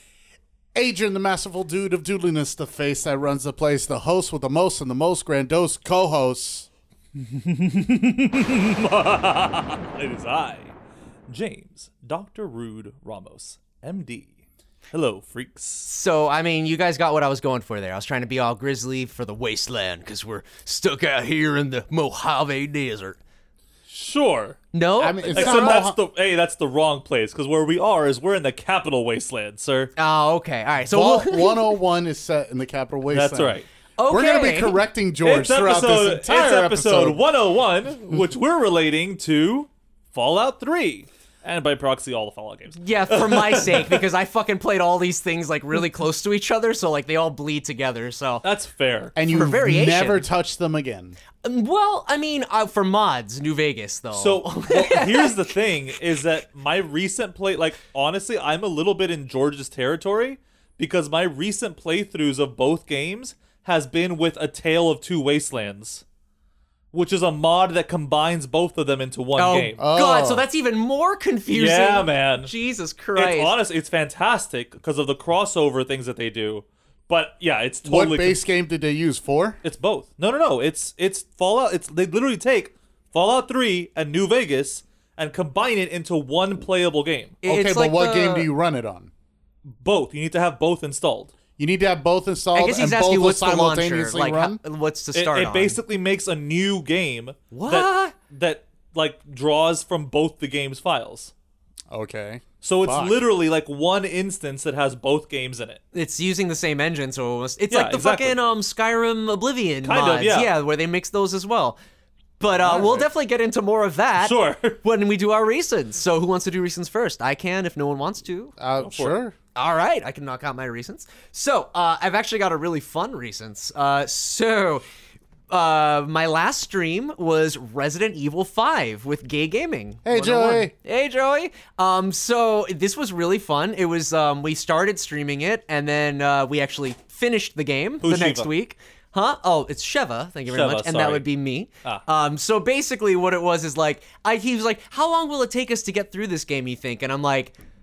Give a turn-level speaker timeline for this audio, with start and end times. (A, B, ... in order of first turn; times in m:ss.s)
0:00.7-0:06.7 A
0:07.2-0:10.7 B
0:11.3-0:14.3 B
0:14.9-0:15.9 B
0:15.8-0:23.2 C
0:23.9-0:24.6 B
0:24.7-0:25.8 C
0:25.0-0:26.0 A
0:25.3-0:29.9 B
0:30.0-0:31.7 C
0:30.9-0:37.2 A
0:33.1-0:33.6 B
0:34.0-0:34.8 C
0:35.2-0:44.0 B
0:42.8-0:48.4 C
0:48.4-0:49.1 B
0:49.2-0:51.2 A
0:49.2-0:50.2 C
0:51.4-0:55.4 C
0:54.1-1:06.0 B
1:06.9-1:09.8 B
1:09.4-1:13.5 C
1:09.8-1:10.4 A
1:11.5-1:12.5 B
1:13.1-1:18.4 B
1:17.8-1:19.6 A
1:19.6-1:27.4 B
1:27.4-1:28.5 C
1:27.4-1:29.1 A
1:29.6-1:31.3 B
1:31.6-1:34.6 A
1:32.5-1:35.8 C
1:35.1-1:41.3 B
1:37.5-1:38.1 C
1:41.9-1:43.2 A
1:42.6-1:45.8 B
1:45.9-1:51.8 C
1:47.7-1:48.4 B
1:49.8-1:50.5 B
1:52.4-1:58.5 C
1:52.6-1:53.1 A
1:54.2-1:54.8 B
1:58.6-1:59.3 A
1:58.8-1:59.2 B
1:59.5-2:04.8 C
2:05.5-2:27.5 C
2:10.0-2:10.7 A
2:18.0-2:18.5 B
2:20.5-2:21.2 B